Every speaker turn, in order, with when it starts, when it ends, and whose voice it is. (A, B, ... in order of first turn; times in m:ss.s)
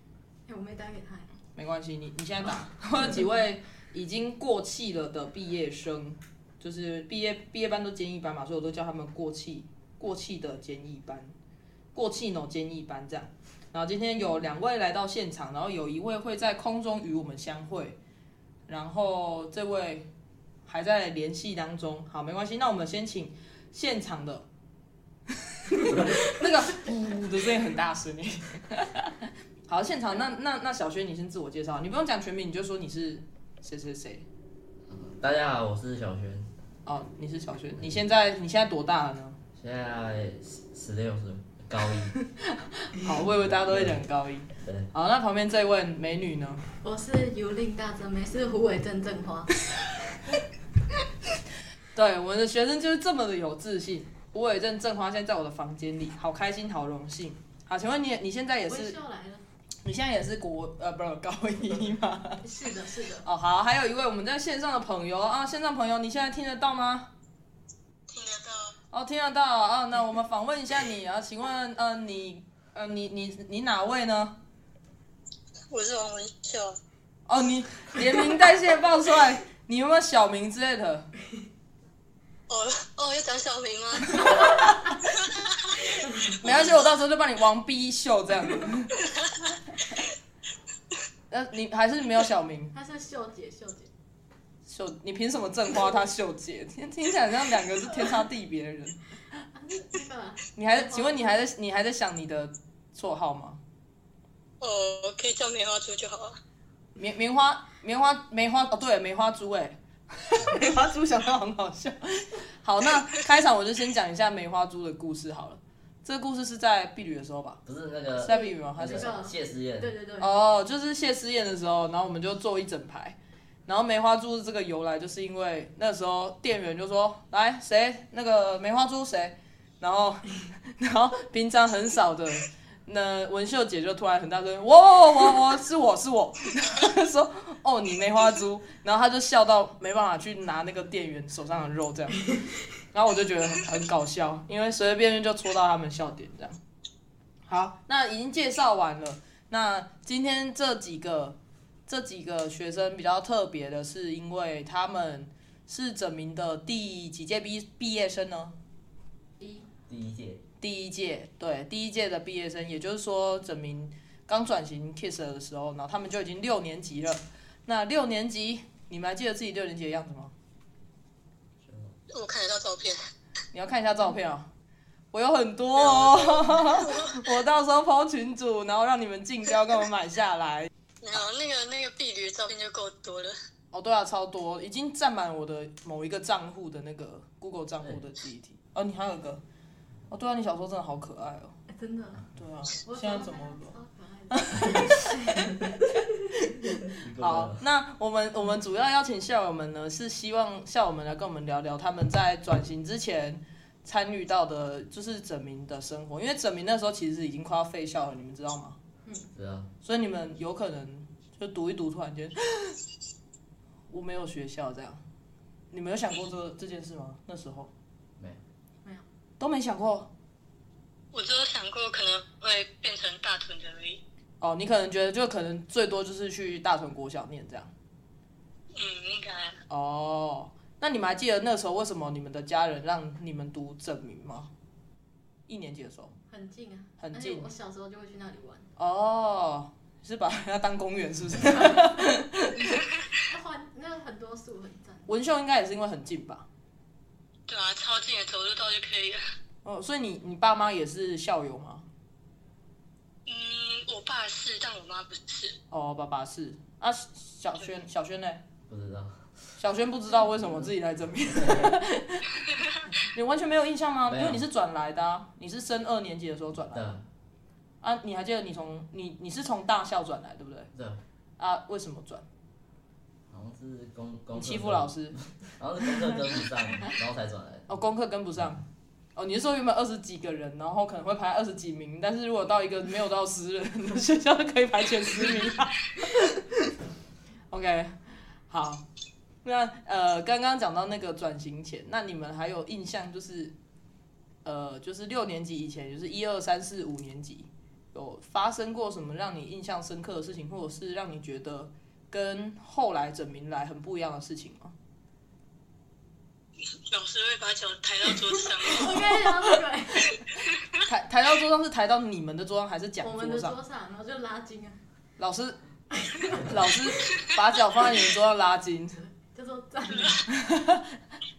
0:00.5-0:01.3 A
0:01.5-0:11.3 B
0:11.9-0:18.0 B
0:18.7-0:20.1 B
0:20.6-0:24.4 B
0:25.7-0:34.2 B
0:34.9-0:36.5 C
0:36.8-0:39.4 B
0:39.6-0:42.1 C
0:42.2-0:46.6 B
0:43.4-0:44.0 C
0:44.6-0:44.9 C
0:46.8-0:49.5 A
0:51.9-0:59.0 B
0:58.7-0:59.4 A
0:59.8-1:02.4 B
1:02.4-1:03.3 A
1:03.2-1:07.1 B
1:08.1-1:08.8 D
1:08.9-1:14.4 B
1:15.7-1:16.8 D
1:17.3-1:21.1 B
1:22.5-1:26.7 D
1:26.4-1:29.0 B
1:31.3-1:32.7 B
1:32.7-1:33.9 A
1:34.6-1:39.0 B
1:39.5-1:41.4 A
1:40.5-1:43.6 B
1:44.6-1:46.4 D
1:47.0-1:57.6 B
1:57.6-1:59.9 C
1:58.2-1:59.2 B
1:58.2-2:00.3 A
2:00.2-2:22.3 B
2:22.9-2:26.6 B
2:27.5-2:38.6 B
2:39.4-2:39.7 A
2:39.9-2:40.4 C
2:40.6-2:50.3 B
2:51.6-2:52.0 C
2:52.1-2:53.0 D
2:53.5-2:54.5 B
2:55.1-3:00.7 B
2:55.8-2:57.3 D
3:01.0-3:03.3 D
3:03.7-3:09.4 B
3:10.1-3:11.6 B
3:11.7-3:12.3 A
3:12.3-3:13.7 B
3:12.8-3:15.8 A
3:14.3-3:15.5 B
3:16.4-3:28.8 B
3:16.9-3:17.6 C
3:29.0-3:29.3 A
3:29.3-3:29.7 C
3:29.8-3:32.8 B
3:33.9-3:35.0 B
3:35.7-3:37.7 B
3:39.4-3:40.1 B
3:41.1-3:44.0 D
3:44.4-3:47.7 B
3:48.7-3:49.6 D
3:49.7-3:54.5 B
3:55.5-3:56.1 B
3:56.3-3:58.7 A
3:57.0-3:57.5 B
3:58.8-4:02.8 B
4:03.3-4:05.1 A
4:05.1-4:06.5 B
4:07.5-4:09.2 D
4:09.6-4:11.8 B
4:13.2-4:15.6 D
4:15.7-4:18.4 B
4:18.7-4:19.6 C
4:19.6-4:27.0 B
4:20.4-4:20.7 C
4:21.3-4:21.8 C
4:24.1-4:24.4 C
4:26.7-4:27.0 C
4:27.8-4:30.7 B
4:30.7-4:31.0 C
4:31.4-4:32.2 B
4:33.3-4:37.7 C
4:34.3-4:35.2 B
4:37.7-4:38.6 B
4:39.1-4:46.5 B
4:47.5-4:47.9 B
4:48.5-4:48.8 B
4:49.4-4:53.5 B
4:54.4-5:04.7 B
5:06.9-5:09.2 D
5:08.6-5:10.2 A
5:10.3-5:10.7 D
5:10.8-5:13.6 B
5:13.0-5:14.8 A
5:15.2-5:15.6 B
5:15.9-5:16.8 A
5:16.4-5:19.0 B
5:19.0-5:20.3 A
5:20.3-5:20.9 B